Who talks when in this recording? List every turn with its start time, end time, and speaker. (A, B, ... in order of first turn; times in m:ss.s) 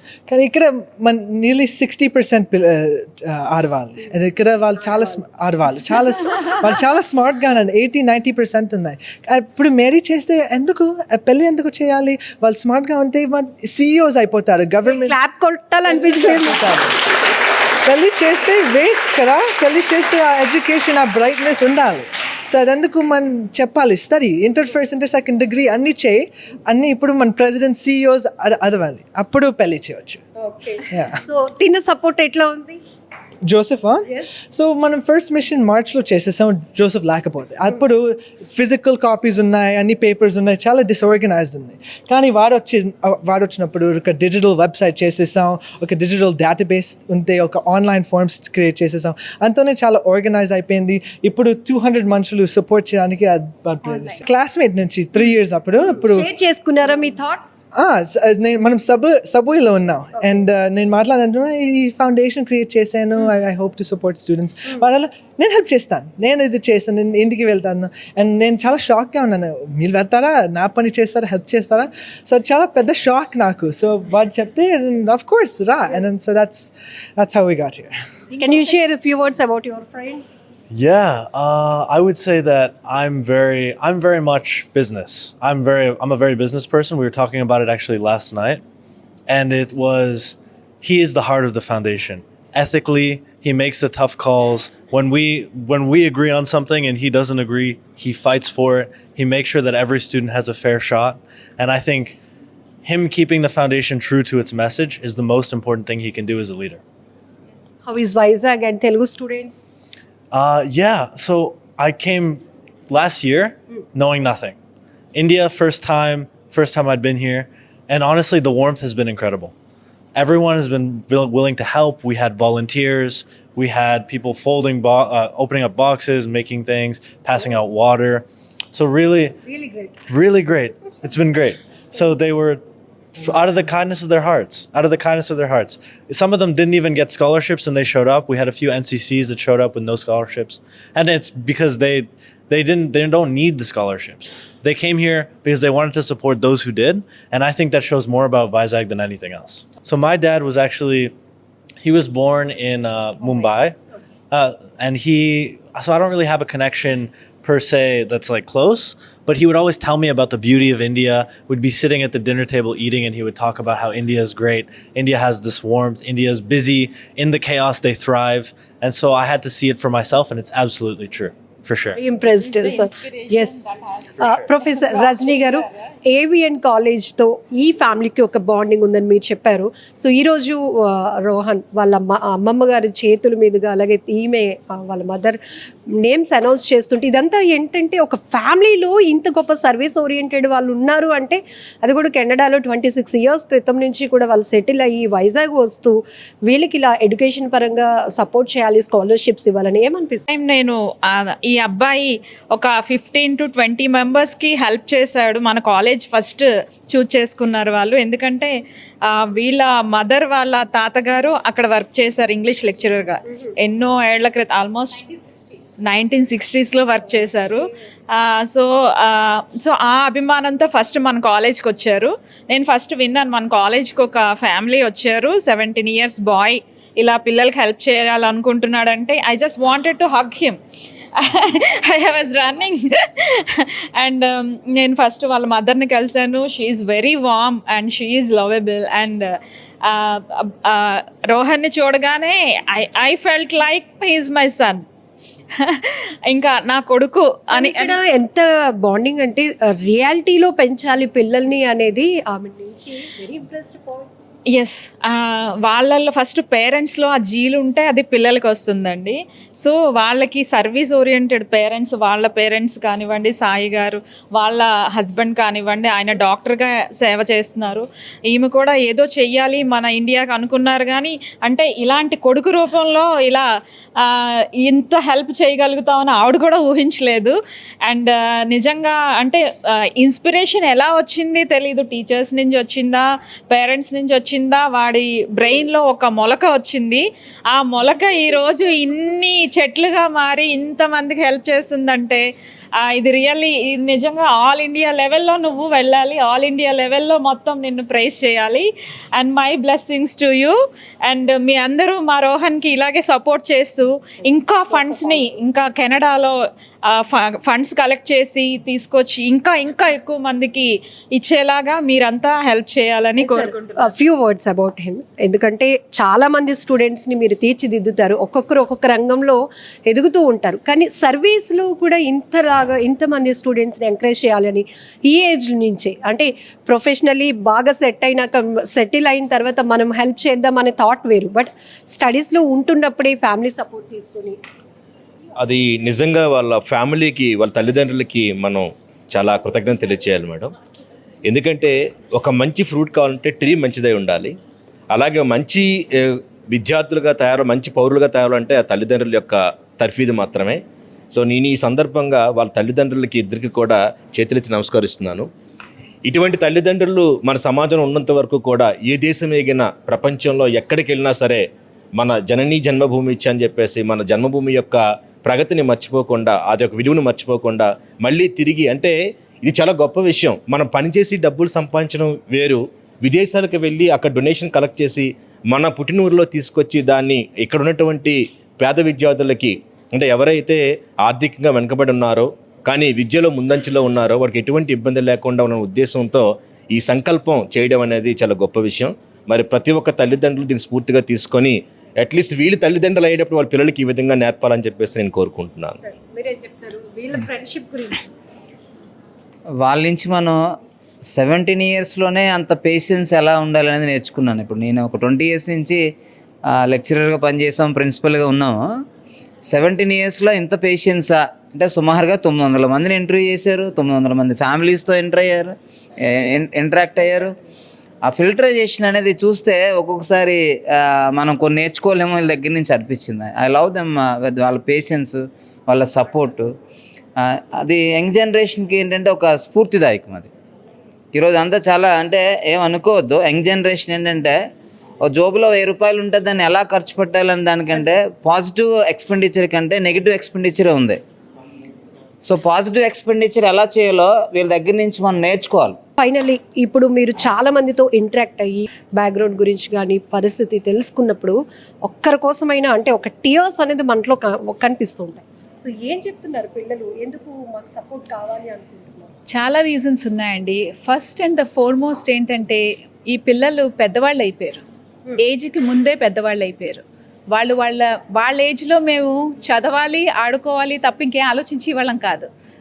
0:00.3-0:15.2 A
0:14.9-0:16.6 B
0:15.8-0:17.0 A
0:17.8-0:30.2 A
0:30.4-0:32.8 B
0:30.9-0:31.2 A
0:33.4-0:56.3 A
0:56.0-0:57.4 B
0:57.7-1:17.9 A
1:18.4-1:20.2 B
1:20.7-1:28.6 C
1:29.3-1:42.2 C
1:42.8-1:46.8 C
1:47.8-1:49.6 B
1:50.3-1:54.5 C
1:55.1-1:59.5 C
2:00.1-2:09.4 C
2:09.4-2:10.0 B
2:10.1-2:12.6 C
2:13.2-2:31.1 C
2:31.8-2:33.8 C
2:34.3-2:52.0 C
2:52.0-2:53.7 B
2:54.2-3:05.4 B
3:05.9-3:20.2 B
3:20.3-3:35.1 D
3:35.8-3:50.6 D
3:51.2-4:04.8 D
4:05.6-4:08.0 D
4:07.5-4:14.1 B
4:14.5-4:39.4 D
4:40.0-4:52.2 D
4:52.8-5:06.4 D
5:04.7-5:05.3 B
5:06.9-5:13.5 D
5:13.2-5:34.4 B
5:35.4-5:40.5 E
5:41.2-5:44.4 E
5:44.9-5:55.3 E
5:56.0-6:35.8 E
6:35.8-6:38.1 B
6:39.6-6:40.4 F
6:41.1-6:45.8 F
6:46.5-6:48.6 F
6:49.5-6:57.3 F
6:58.0-7:06.5 F
7:07.2-7:10.3 F
7:11.1-7:14.4 F
7:15.0-7:21.0 F
7:22.2-7:25.8 F
7:26.0-7:39.1 B
7:39.3-7:44.6 G
7:45.2-7:52.3 G